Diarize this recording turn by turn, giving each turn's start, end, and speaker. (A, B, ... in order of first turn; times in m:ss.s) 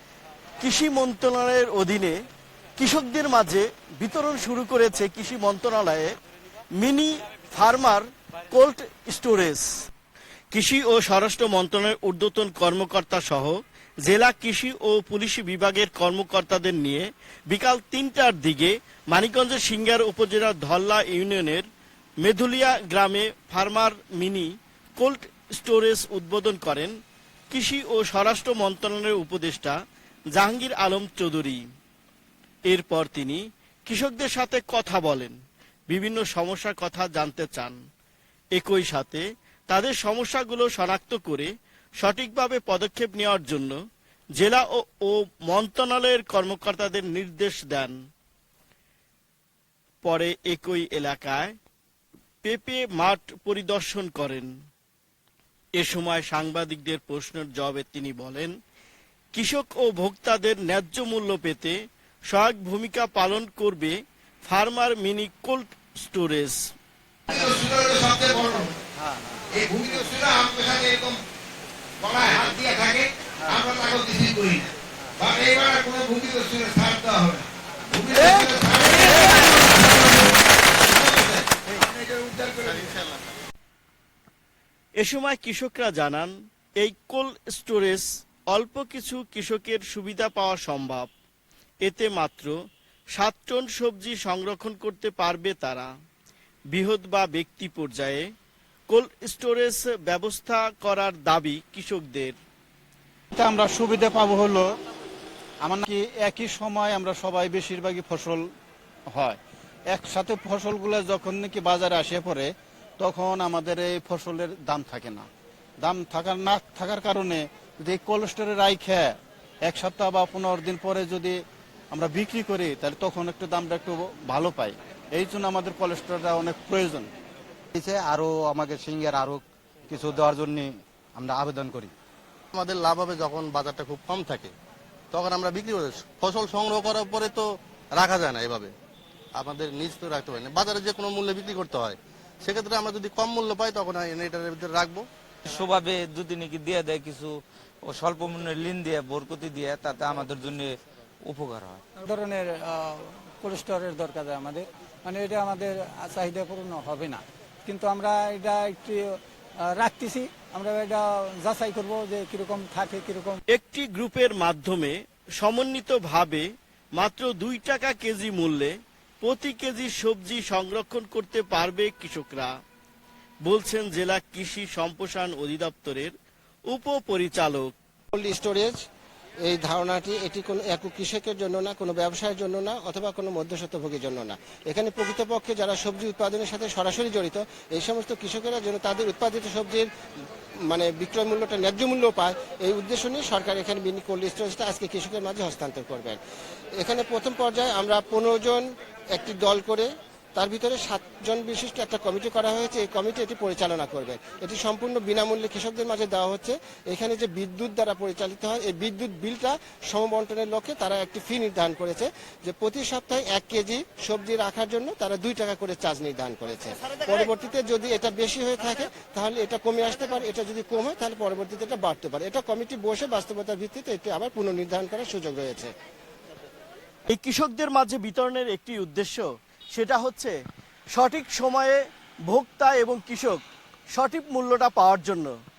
0:00.6-0:02.1 A
0:02.8-0:06.1 A
0:06.8-0:09.7 A
0:10.5-0:21.6 A
0:22.2-0:26.9 A
0:27.5-0:29.8 A
0:30.3-0:31.6 A
0:32.7-0:35.3 A
0:35.9-0:37.8 A
0:38.6-0:41.5 A
0:42.0-0:43.7 A
0:44.4-0:48.0 A
0:50.0-0:51.5 A
0:52.4-0:54.5 A
0:55.8-0:58.5 A
0:59.3-1:01.7 A
1:02.3-1:06.6 A
1:07.3-1:08.8 B
1:08.2-1:09.4 C
1:09.5-1:11.2 B
1:12.0-1:14.7 B
1:15.2-1:20.2 B
1:20.9-1:23.0 B
1:22.6-1:23.2 D
1:25.0-1:31.1 A
1:31.8-1:32.5 A
1:33.1-1:35.9 A
1:36.7-1:38.2 A
1:38.9-1:42.4 A
1:43.3-1:44.7 E
1:45.6-1:48.4 E
1:49.1-1:49.4 E
1:49.9-1:55.3 E
1:55.8-2:01.4 E
2:01.9-2:07.1 E
2:07.8-2:11.9 C
2:12.5-2:14.5 D
2:15.1-2:18.7 D
2:19.3-2:25.1 D
2:25.4-2:31.8 F
2:32.0-2:39.0 G
2:39.7-2:43.4 G
2:43.5-2:52.5 A
2:53.4-2:56.1 A
2:56.7-2:57.7 A
2:58.1-2:58.8 H
2:59.4-3:09.9 H
3:10.7-3:16.2 H
3:16.8-3:45.7 H
3:47.1-3:50.3 A
3:50.9-3:53.4 A
3:53.9-3:55.3 A